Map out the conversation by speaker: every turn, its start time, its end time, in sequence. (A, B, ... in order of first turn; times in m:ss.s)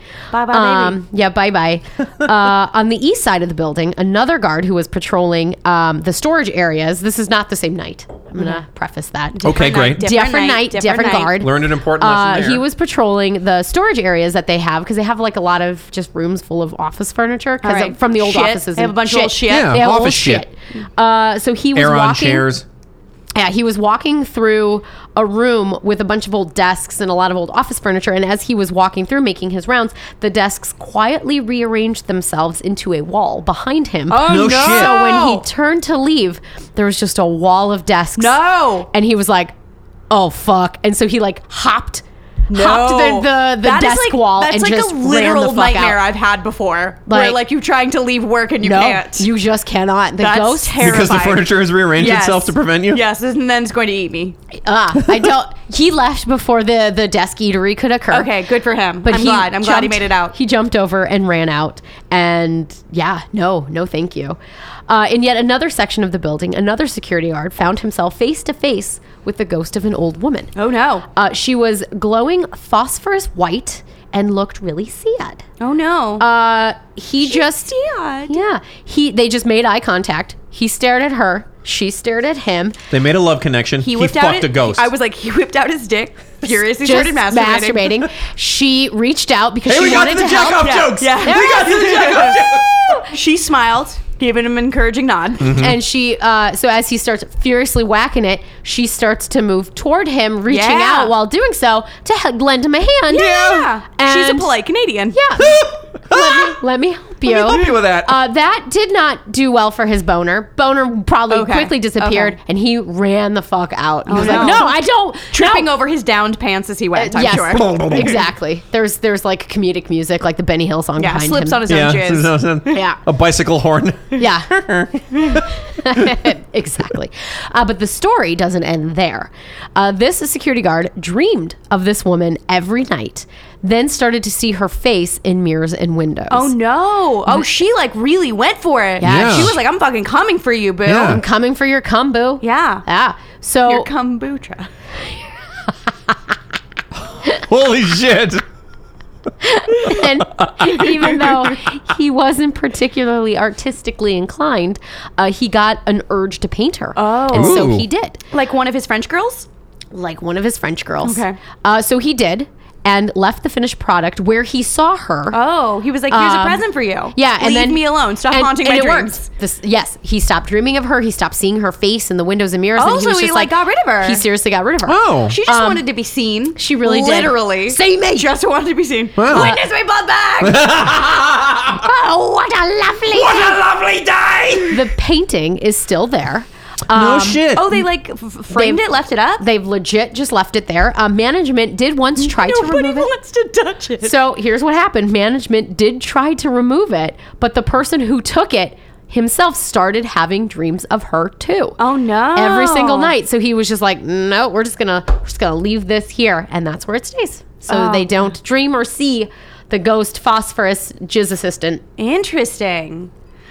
0:00.3-0:01.0 A
0:00.5-0:22.5 B
0:09.3-0:11.4 A
0:09.4-0:10.1 C
0:11.4-0:12.6 C
0:17.6-0:19.8 A
0:19.5-0:20.4 C
0:21.8-0:22.6 C
0:23.4-0:38.4 B
0:34.1-0:35.4 A
0:34.3-0:35.0 C
0:38.2-0:38.9 A
0:38.9-0:39.5 B
0:40.1-0:46.0 B
0:42.5-0:49.3 A
0:47.1-0:47.4 B
0:48.6-0:51.1 B
0:50.2-0:54.4 A
0:50.8-0:53.0 C
0:54.6-0:58.3 B
0:58.1-1:00.3 A
0:59.0-1:04.4 B
1:04.9-1:10.5 B
1:10.6-1:11.1 A
1:11.1-1:15.4 B
1:15.6-1:16.3 A
1:16.2-1:17.7 B
1:17.2-1:18.4 A
1:18.3-1:22.8 B
1:22.9-1:24.9 C
1:23.8-1:28.0 A
1:26.7-1:32.2 B
1:29.7-1:33.0 C
1:30.6-1:32.4 A
1:33.1-1:35.6 A
1:35.4-1:35.8 C
1:35.5-1:44.5 B
1:40.5-1:41.1 A
1:43.1-1:45.2 A
1:43.1-1:43.7 C
1:45.1-1:55.7 B
1:45.4-1:46.6 C
1:47.2-1:48.2 C
1:51.3-1:52.4 A
1:54.1-1:54.8 A
1:54.1-1:54.6 C
1:55.3-1:58.1 A
1:57.0-2:01.7 B
1:57.5-1:58.2 C
2:01.0-2:02.8 A
2:01.7-2:06.2 C
2:02.7-2:03.0 B
2:04.2-2:04.5 B
2:05.8-2:16.5 B
2:16.3-2:21.2 A
2:19.0-2:19.6 B
2:19.0-2:19.6 C
2:20.9-2:21.2 C
2:21.0-2:23.9 B
2:22.4-2:22.8 A
2:23.6-2:24.7 A
2:27.3-2:28.4 C
2:29.4-2:38.2 B
2:29.8-2:31.3 C
2:37.0-2:37.7 A
2:37.3-2:37.9 C
2:38.3-2:39.5 A
2:39.9-2:45.4 B
2:41.0-2:41.4 A
2:45.3-2:49.3 A
2:46.1-2:55.8 B
2:52.8-2:54.2 A
2:54.8-2:55.4 C
2:55.3-3:00.8 A
2:56.6-2:58.3 B
2:59.2-2:59.6 C
2:59.3-2:59.6 B
3:00.4-3:01.9 C
3:01.9-3:03.4 A
3:02.2-3:03.6 B
3:03.1-3:04.8 C
3:04.7-3:07.6 B
3:06.9-3:07.8 C
3:07.6-3:09.4 A
3:08.5-3:08.8 B
3:09.4-3:13.1 B
3:12.2-3:14.1 A
3:14.0-3:21.8 B
3:21.8-3:23.1 A
3:22.4-3:31.8 B
3:27.7-3:28.2 A
3:32.0-3:33.1 A